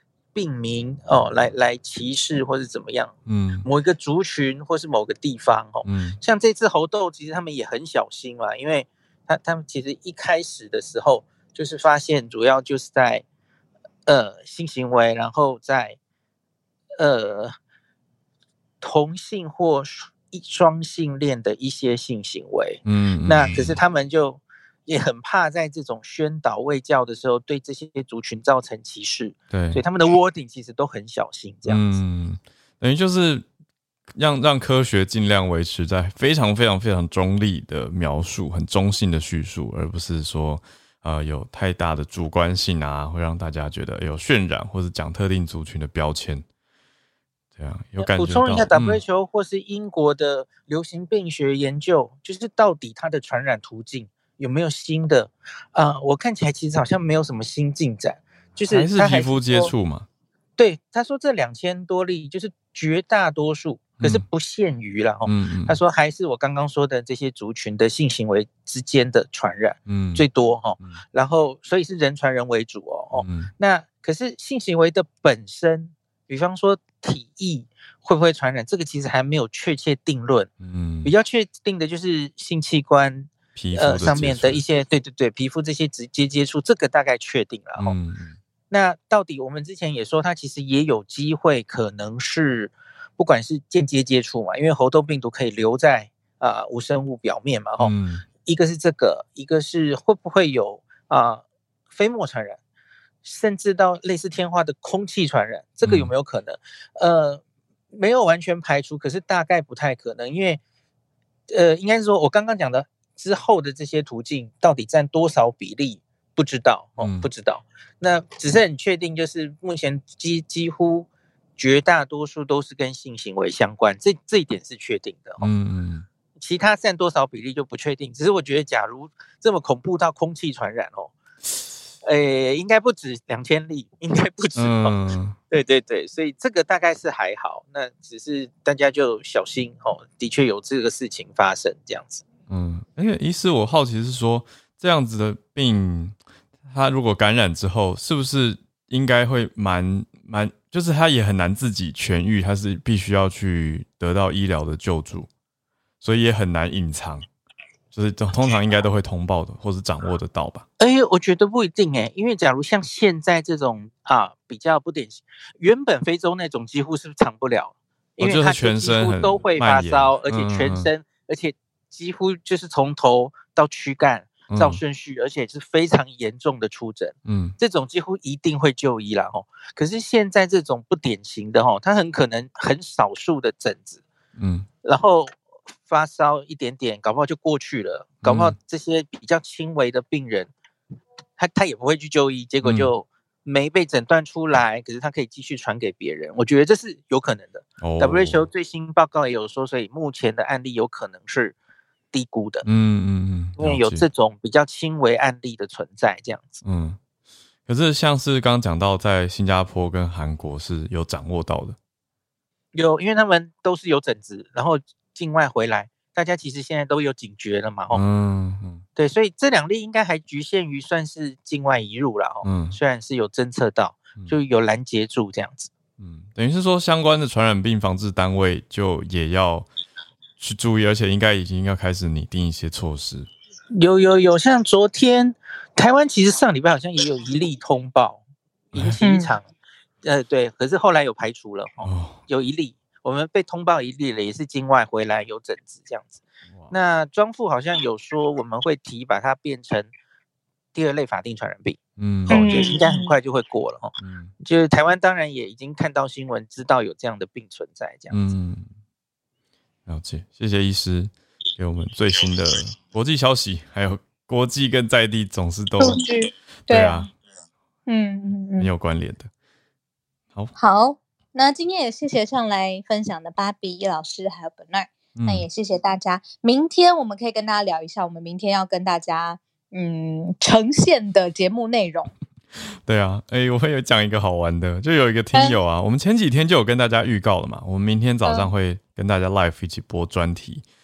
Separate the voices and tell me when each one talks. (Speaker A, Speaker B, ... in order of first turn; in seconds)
Speaker A: 0.3-13.2, 14.1-16.0, 17.0-17.6, 18.8-32.0, 48.0-59.7, 60.6-80.5, 81.0-88.0, 88.7-102.6, 103.2-110.6, 111.5-125.5, 126.4-131.2, 132.0-142.2, 160.8-184.0, 184.8-190.5, 191.4-201.6, 202.1-202.6, 203.6-206.6, 212.7-218.0, 219.0-225.7, 233.7-239.5, 240.0-249.9, 250.7-258.2
Speaker B: 3.3-3.7, 5.8-6.2, 22.9-23.8, 29.5-29.8, 31.7-33.5, 34.1-46.5, 47.6-49.0, 58.7-60.1, 64.0-64.2, 65.2-65.8, 69.9-70.2, 73.1-73.5, 80.6-81.1, 83.6-84.6, 87.8-88.4, 97.8-98.2, 105.8-106.1, 117.0-117.3, 125.4-126.1, 134.6-135.4, 142.5-155.3, 156.0-157.3, 157.9-160.7, 168.2-170.9, 174.5-174.8, 177.2-177.6, 184.4-184.7, 188.2-188.6, 192.6-192.9, 197.8-198.5, 202.7-204.1, 206.6-207.0, 207.7-211.8, 217.9-218.8, 222.4-222.8, 226.0-229.7, 230.4-233.3, 238.7-239.0, 241.8-242.2, 246.5-246.7, 252.0-252.6, 254.0-254.3, 258.1-258.7, 259.9-266.0, 266.7-267.1, 268.6-269.3, 275.1-275.4, 282.9-290.6
Speaker C: 239.0-239.3, 252.3-253.1, 265.8-267.1, 267.9-268.7, 270.6-282.1, 285.3-285.6, 288.2-288.5